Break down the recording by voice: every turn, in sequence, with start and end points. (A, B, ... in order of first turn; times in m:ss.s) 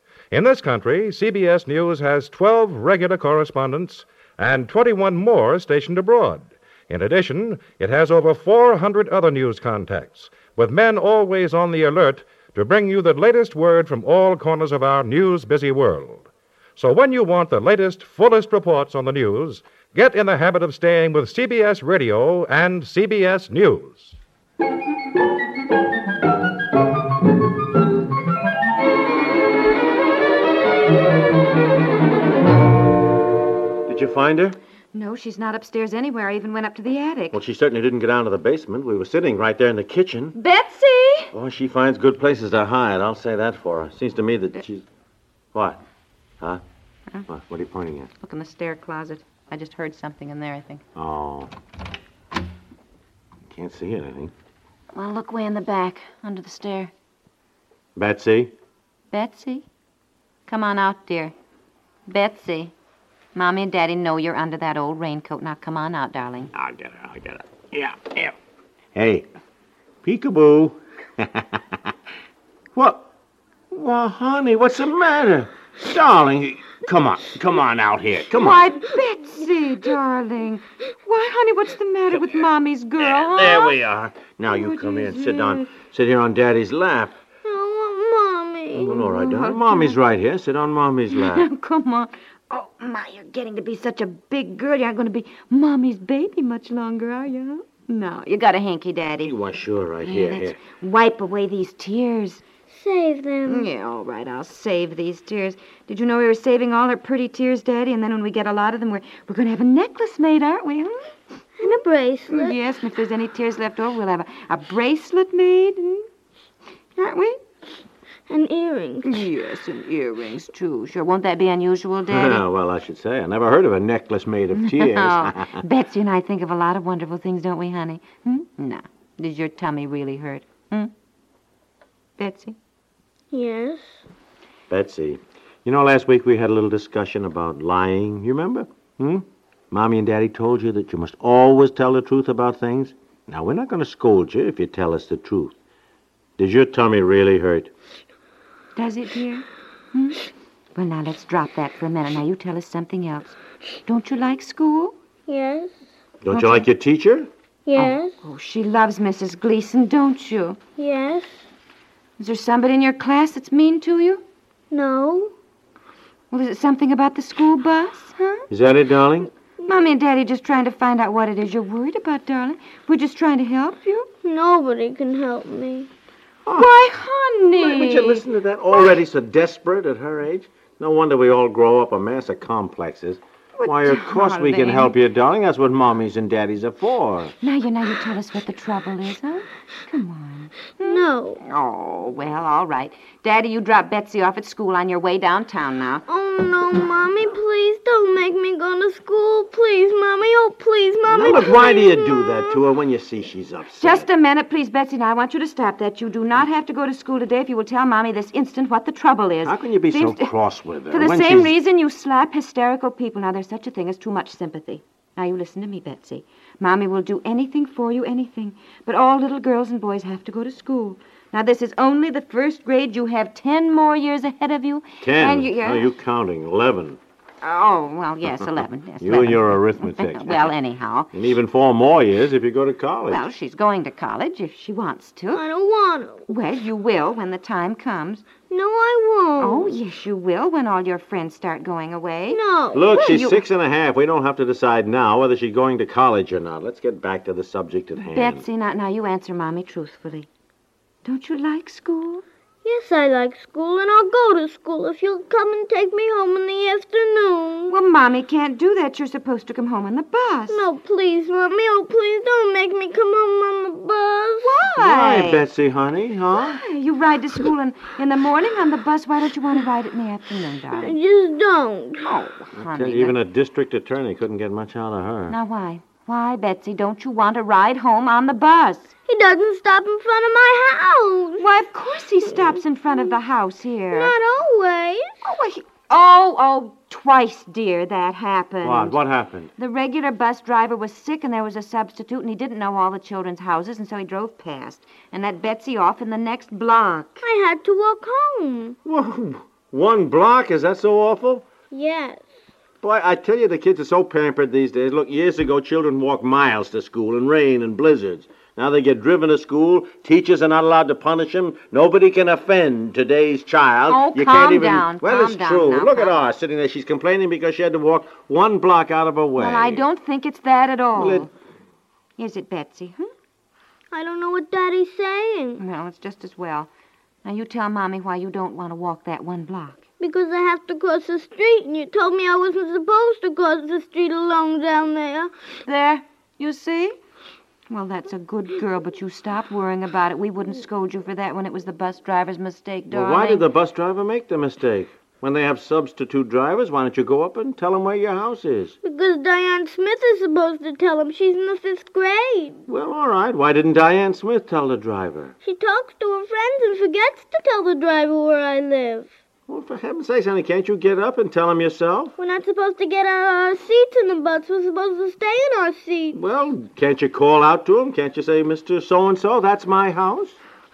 0:00.3-0:24.2 A
0:33.8-0:34.6 B
0:34.9-0:37.4 C
0:37.3-0:40.4 B
0:40.3-0:41.3 C
0:41.3-0:44.8 B
0:45.5-0:45.8 B
0:47.3-0:48.1 B
0:48.2-0:50.8 C
0:51.0-0:51.5 B
0:53.5-0:54.3 B
0:54.9-0:56.9 C
0:58.0-0:58.5 B
0:59.1-0:59.6 C
1:00.5-1:01.3 C
1:02.1-1:02.7 C
1:03.3-1:06.5 C
1:06.5-1:08.3 B
1:08.9-1:09.3 B
1:10.0-1:11.6 B
1:12.7-1:13.0 B
1:13.7-1:18.6 B
1:18.3-1:23.8 C
1:23.0-1:27.2 B
1:24.5-1:25.7 C
1:27.4-1:29.0 D
1:28.7-1:31.5 B
1:28.9-1:30.0 C
1:31.1-1:39.3 C
1:39.2-1:40.6 B
1:40.0-1:42.4 C
1:42.7-1:43.7 D
1:43.4-1:51.1 C
1:51.6-1:52.5 D
1:52.3-1:56.1 C
1:57.0-1:57.4 C
1:58.3-1:59.2 D
1:59.0-2:02.4 C
2:02.1-2:05.6 B
2:04.5-2:10.9 C
2:12.2-2:12.6 C
2:13.3-2:13.9 D
2:14.7-2:25.5 B
2:26.4-2:27.7 B
2:28.7-2:30.2 C
2:30.7-2:34.9 C
2:35.3-2:35.7 D
2:36.2-2:37.3 B
2:36.3-2:36.6 C
2:37.6-2:38.1 D
2:37.8-2:40.6 C
2:40.8-2:41.4 D
2:42.2-2:44.2 C
2:44.7-2:45.3 D
2:46.3-2:48.5 C
2:48.5-2:49.3 B
2:49.6-2:54.1 C
2:54.2-2:55.9 D
2:56.4-2:56.7 B
2:56.5-2:58.9 C
2:57.6-3:07.3 B
3:03.6-3:05.0 C
3:07.4-3:16.0 C
3:10.8-3:11.4 D
3:16.1-3:22.6 D
3:21.1-3:24.1 B
3:23.8-3:30.3 C
3:29.4-3:31.5 B
3:30.9-3:45.9 C
3:45.0-3:47.0 B
3:47.4-3:51.1 C
3:49.0-3:50.5 B
3:51.1-3:53.2 B
3:53.1-3:55.4 C
3:55.3-3:56.3 D
3:56.3-3:58.2 C
3:58.5-3:59.7 D
3:59.4-4:03.4 C
4:02.3-4:02.9 D
4:02.7-4:08.4 B
4:08.1-4:10.3 C
4:11.0-4:12.2 C
4:12.6-4:17.7 D
4:17.7-4:20.6 C
4:20.5-4:24.5 D
4:24.4-4:25.4 C
4:24.7-4:26.6 B
4:26.3-4:31.0 C
4:30.7-4:32.1 D
4:32.0-4:33.2 C
4:32.6-4:35.4 B
4:35.3-4:38.9 C
4:39.1-4:41.4 D
4:41.4-4:44.1 C
4:42.3-4:43.0 D
4:43.9-4:45.1 D
4:45.2-4:49.0 C
4:48.6-4:49.5 B
4:49.6-4:57.2 C
4:57.2-4:58.8 D
4:58.8-5:01.4 B
5:01.7-5:02.2 D
5:02.8-5:19.8 B
5:13.9-5:16.2 C
5:19.4-5:21.3 C
5:20.9-5:21.3 B
5:22.2-5:23.1 C
5:23.9-5:25.6 D
5:25.6-5:26.7 C
5:27.2-5:29.8 C
5:30.0-5:35.3 D
5:35.6-5:37.0 C
5:37.7-5:43.4 C
5:42.9-5:48.7 B
5:48.8-5:52.6 D
5:52.7-5:55.3 B
5:55.4-5:59.1 D
5:59.5-6:02.1 B
6:02.2-6:06.2 D
6:06.1-6:10.4 B